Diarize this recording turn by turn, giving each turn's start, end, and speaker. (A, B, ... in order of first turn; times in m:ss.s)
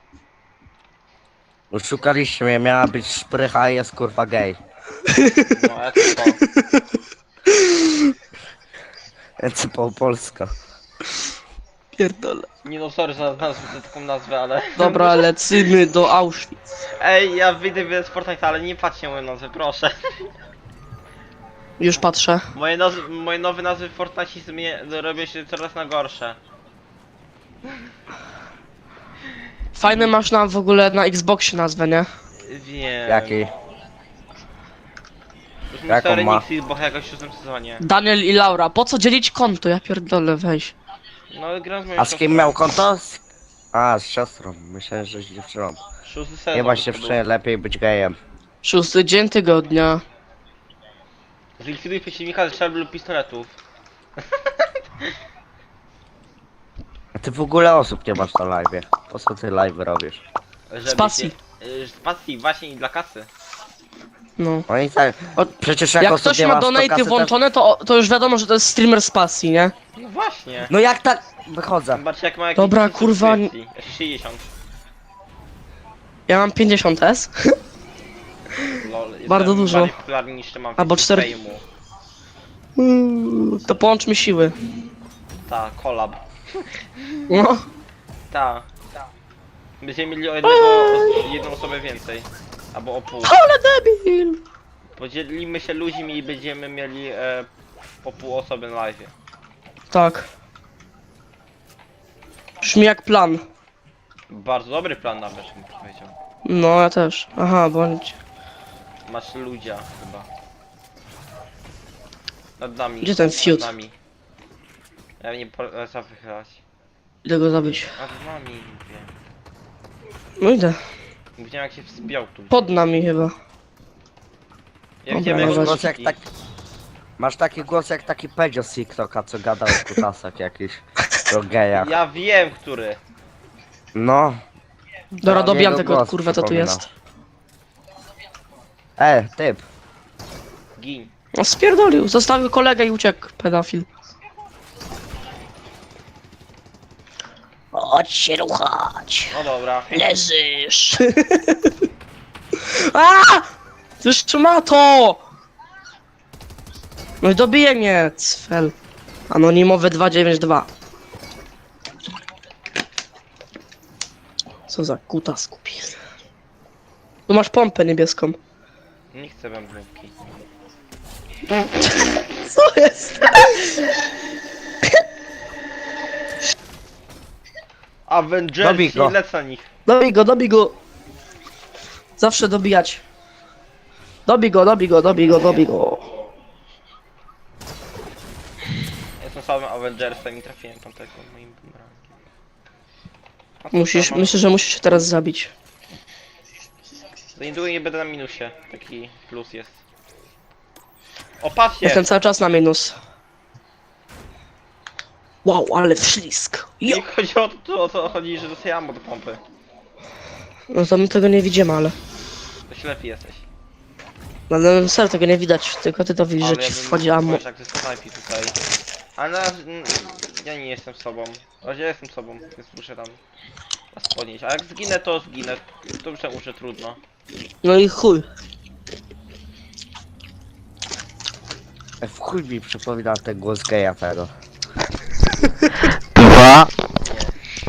0:01.7-0:04.6 A
0:05.1-0:05.5 B
0:05.4-0:06.4 C
0:06.5-0:06.8 B
0:07.5-0:08.0 B
0:09.4-0:10.5 A
0:12.0-0:12.5 B
0:12.6-0:15.3 C
0:14.8-0:16.6 B
0:17.0-0:20.3 C
0:21.8-0:22.5 B
0:22.5-0:26.4 C
0:29.8-0:32.1 B
0:29.9-0:30.1 C
0:32.4-0:33.4 C
0:33.1-0:33.5 A
0:35.7-0:37.8 C
0:35.9-0:36.4 A
0:37.8-0:40.8 B
0:41.3-0:42.6 C
0:42.0-0:43.2 A
0:43.7-0:45.8 A
0:46.1-0:47.2 C
0:46.5-0:48.2 A
0:48.6-0:50.0 B
0:51.6-0:53.5 C
0:54.2-0:55.1 C
0:57.2-1:00.2 A
1:00.7-1:03.3 C
1:00.8-1:01.4 B
1:04.4-1:04.7 B
1:04.7-1:07.3 A
1:05.4-1:09.7 B
1:10.0-1:10.7 C
1:10.7-1:12.0 A
1:11.9-1:14.5 C
1:12.6-1:13.5 B
1:16.3-1:17.6 B
1:18.7-1:21.6 C
1:19.3-1:20.0 B
1:20.8-1:21.3 B
1:22.8-1:24.6 B
1:25.5-1:27.3 C
1:27.3-1:27.7 B
1:28.3-1:28.7 C
1:29.8-1:33.4 C
1:30.4-1:31.2 B
1:33.2-1:34.4 B
1:35.0-1:37.5 C
1:38.0-1:39.1 C
1:39.9-1:40.3 B
1:42.6-1:43.4 B
1:44.3-1:46.1 C
1:46.4-1:48.2 B
1:49.0-1:50.3 C
1:52.6-1:53.9 C
1:53.0-1:53.7 B
1:55.2-1:56.6 C
1:57.2-1:57.9 B
1:58.0-1:59.1 C
2:00.4-2:00.8 B
2:01.4-2:02.6 C
2:02.5-2:03.4 B
2:05.0-2:06.2 C
2:05.1-2:05.8 B
2:05.3-2:06.3 A
2:07.2-2:11.9 A
2:11.7-2:13.0 C
2:13.9-2:14.4 A
2:15.2-2:16.9 B
2:15.2-2:16.8 A
2:19.0-2:19.6 A
2:20.8-2:21.1 C
2:21.4-2:23.9 B
2:27.7-2:29.4 B
2:29.3-2:30.0 C
2:29.9-2:31.7 B
2:32.6-2:33.5 B
2:34.0-2:35.2 B
2:37.2-2:38.7 B
2:39.3-2:40.7 B
2:44.7-2:46.0 B
2:47.3-2:48.4 B
2:49.1-2:50.1 C
2:51.9-2:53.7 B
2:58.1-2:59.7 C
2:58.6-2:59.2 A
2:59.9-3:00.8 B
3:02.2-3:03.0 B
3:04.3-3:06.1 B
3:09.2-3:12.2 C
3:13.6-3:14.4 C
3:13.7-3:15.5 B
3:17.4-3:19.8 C
3:21.4-3:22.0 C
3:21.8-3:23.0 B
3:25.4-3:27.0 B
3:26.8-3:29.4 C
3:30.7-3:32.0 B
3:32.7-3:33.5 C
3:34.5-3:37.4 B
3:36.4-3:38.6 C
3:39.2-3:43.2 C
3:43.9-3:47.0 C
3:47.6-3:48.3 B
3:52.0-3:54.3 A
3:56.2-3:57.4 C